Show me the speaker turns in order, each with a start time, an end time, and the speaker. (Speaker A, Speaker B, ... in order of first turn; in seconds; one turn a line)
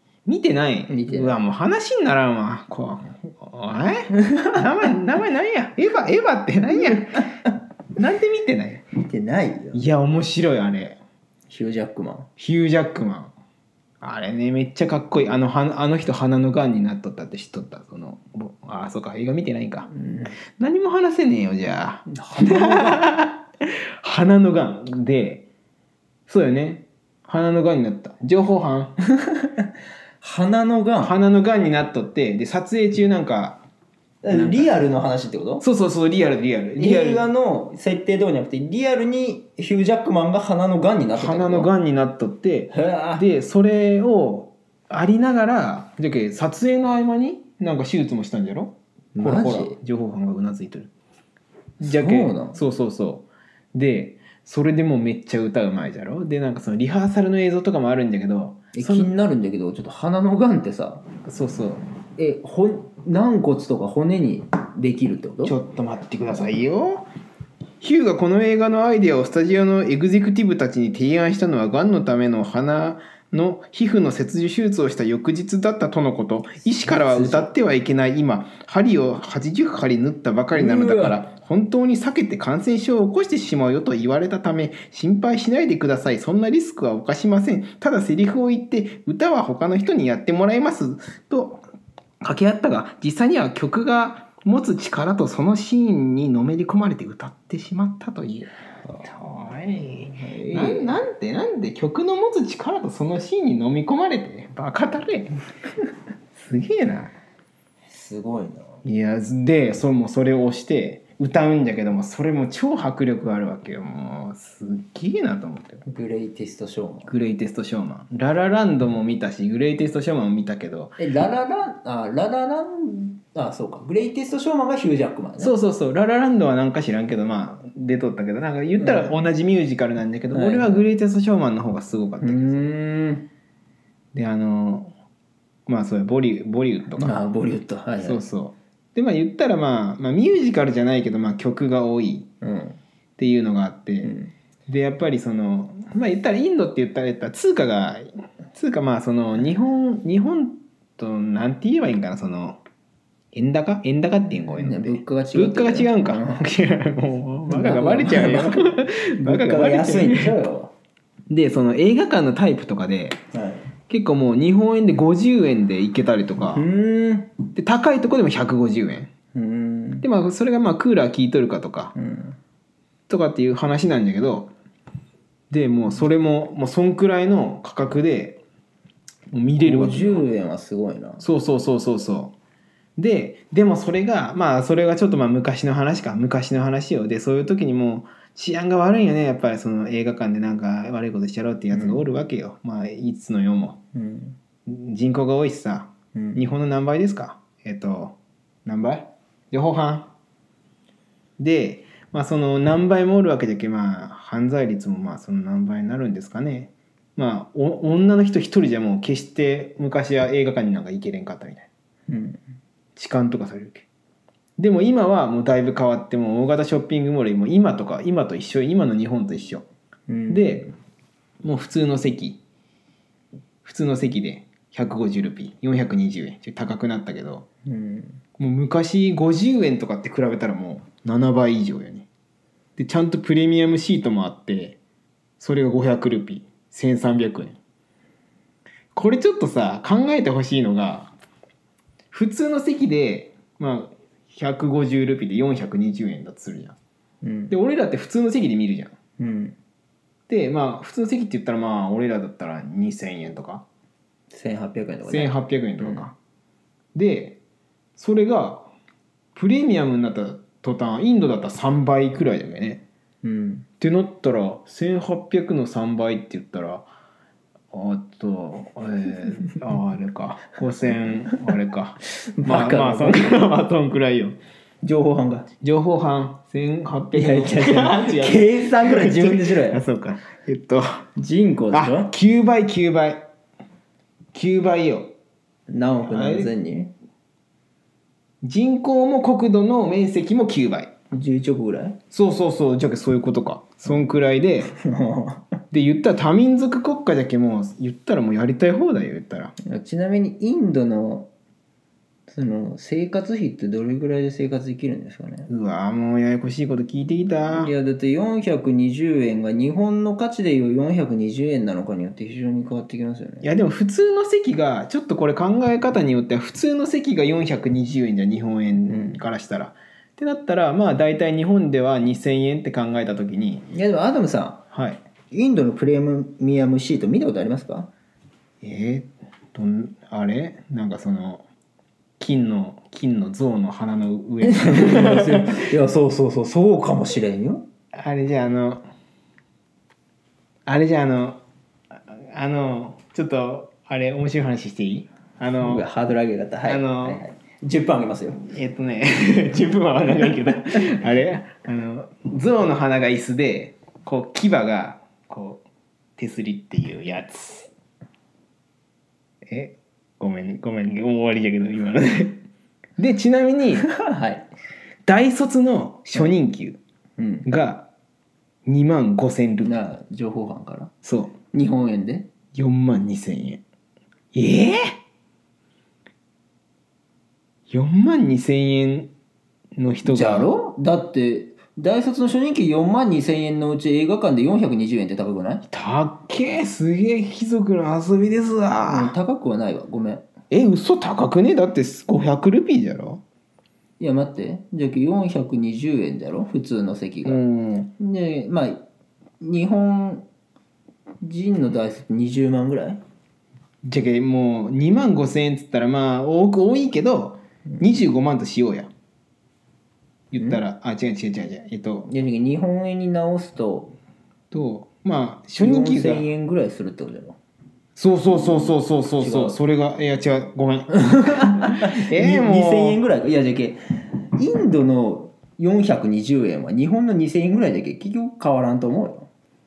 Speaker A: 0.2-7.3
Speaker B: 0.9-1.4
Speaker B: 6.7-6.9
Speaker A: 8.0-8.8
Speaker B: 9.0-9.8
Speaker A: 9.7-11.0
Speaker B: 11.5-12.3
Speaker A: 12.4-13.3
Speaker A: 14.0-19.9
Speaker B: 19.9-20.4
Speaker A: 20.6-25.4
Speaker B: 22.1-23.0
Speaker A: 26.3-28.9
Speaker B: 29.1-31.1
Speaker A: 31.0-33.6
Speaker B: 34.2-35.6
Speaker A: 34.3-34.7
Speaker A: 35.6-37.3
Speaker B: 36.8-41.7
Speaker A: 41.1-50.9
Speaker B: 42.7-43.2
Speaker B: 49.1-49.8
Speaker B: 51.8-52.6
Speaker A: 51.8-59.1
Speaker B: 58.7-61.0
Speaker A: 61.2-61.8
Speaker B: 62.2-65.5
Speaker A: 65.4-67.0
Speaker A: 67.8-91.6
Speaker B: 76.8-77.5
Speaker B: 80.5-81.2
Speaker A: 92.2-98.5
Speaker A: 99.0-105.3
Speaker B: 99.8-101.0
Speaker A: 106.3-107.1
Speaker B: 107.9-108.8
Speaker A: 108.8-115.8
Speaker B: 115.8-117.1
Speaker A: 117.1-121.0
Speaker B: 121.0-125.5
Speaker A: 125.4-132.6
Speaker B: 128.8-129.2
Speaker B: 130.3-130.8
Speaker B: 132.2-133.3
Speaker A: 134.1-134.9
Speaker A: 135.7-137.2
Speaker B: 136.9-138.2
Speaker A: 138.0-142.3
Speaker B: 142.4-142.8
Speaker A: 143.2-144.1
Speaker B: 144.0-144.3
Speaker A: 144.7-152.6
Speaker A: 153.3-160.3
Speaker B: 154.6-156.4
Speaker B: 157.5-160.7
Speaker A: 161.3-163.2
Speaker B: 163.3-163.7
Speaker A: 163.9-166.7
Speaker B: 166.5-167.3
Speaker A: 167.5-169.1
Speaker B: 169.3-170.0
Speaker A: 170.0-171.9
Speaker B: 171.9-172.4
Speaker A: 173.1-174.5
Speaker A: 175.5-178.4
Speaker A: 179.3-180.3
Speaker B: 179.6-181.2
Speaker A: 181.2-182.3
Speaker A: 183.0-193.8
Speaker B: 191.7-192.0
Speaker B: 193.9-194.4
Speaker A: 194.7-200.1
Speaker B: 196.1-196.5
Speaker A: 201.4-211.7
Speaker B: 212.1-212.4
Speaker A: 212.9-213.8
Speaker A: 214.6-219.7
Speaker B: 220.1-220.7
Speaker A: 220.3-220.7
Speaker A: 221.4-222.4
Speaker A: 223.6-227.4
Speaker B: 227.7-228.2
Speaker A: 228.4-232.1
Speaker A: 232.8-234.8
Speaker A: 235.4-237.6
Speaker A: 238.9-241.1
Speaker A: 242.1-246.8
Speaker B: 247.2-247.5
Speaker A: 247.5-248.9
Speaker B: 249.2-249.6
Speaker A: 250.3-253.6
Speaker B: 254.3-256.1
Speaker A: 255.1-256.1
Speaker A: 256.9-257.4
Speaker A: 258.0-258.7
Speaker A: 259.3-262.8
Speaker B: 263.2-263.7
Speaker A: 263.8-266.9
Speaker A: 267.7-274.4
Speaker B: 272.2-273.4
Speaker B: 274.8-275.5
Speaker A: 275.6-281.0
Speaker B: 277.1-279.8
Speaker B: 281.2-282.1
Speaker A: 281.7-283.2
Speaker A: 284.3-285.1
Speaker B: 285.7-286.9
Speaker A: 286.1-286.5
Speaker A: 288.4-290.9
Speaker B: 291.1-292.0
Speaker A: 292.1-294.7
Speaker B: 294.7-295.6
Speaker A: 295.7-299.5
Speaker B: 299.6-301.3
Speaker B: 302.3-305.5
Speaker A: 305.5-307.7
Speaker B: 307.5-313.5
Speaker A: 313.4-323.6
Speaker B: 318.9-319.2
Speaker B: 323.7-324.6
Speaker A: 324.7-325.0
Speaker B: 325.3-327.9
Speaker A: 328.6-331.4
Speaker A: 332.2-335.6
Speaker B: 334.4-337.6
Speaker A: 337.9-338.8
Speaker A: 340.6-341.4
Speaker A: 342.1-345.9
Speaker B: 345.6-348.4
Speaker A: 346.6-347.2
Speaker A: 348.5-355.6
Speaker A: 356.2-357.7
Speaker A: 359.4-362.4
Speaker A: 363.0-363.9
Speaker B: 363.9-364.4
Speaker A: 365.1-366.8
Speaker B: 367.2-367.5
Speaker A: 367.4-367.9
Speaker A: 368.6-369.8
Speaker B: 369.6-370.9
Speaker A: 371.0-371.3
Speaker B: 371.5-372.3
Speaker A: 372.5-373.6
Speaker A: 374.3-374.8
Speaker A: 377.7-379.1
Speaker A: 379.8-380.5
Speaker B: 380.0-385.6
Speaker A: 385.7-389.1
Speaker B: 388.8-390.2
Speaker A: 390.5-393.2
Speaker B: 394.0-397.4
Speaker A: 397.2-397.9
Speaker B: 398.0-398.8
Speaker B: 399.4-400.2
Speaker B: 401.2-403.0
Speaker A: 403.8-408.9
Speaker A: 410.3-412.1
Speaker B: 412.1-413.9
Speaker A: 414.5-416.3
Speaker B: 415.6-417.4
Speaker A: 417.9-423.0
Speaker B: 418.3-419.6
Speaker B: 421.0-429.3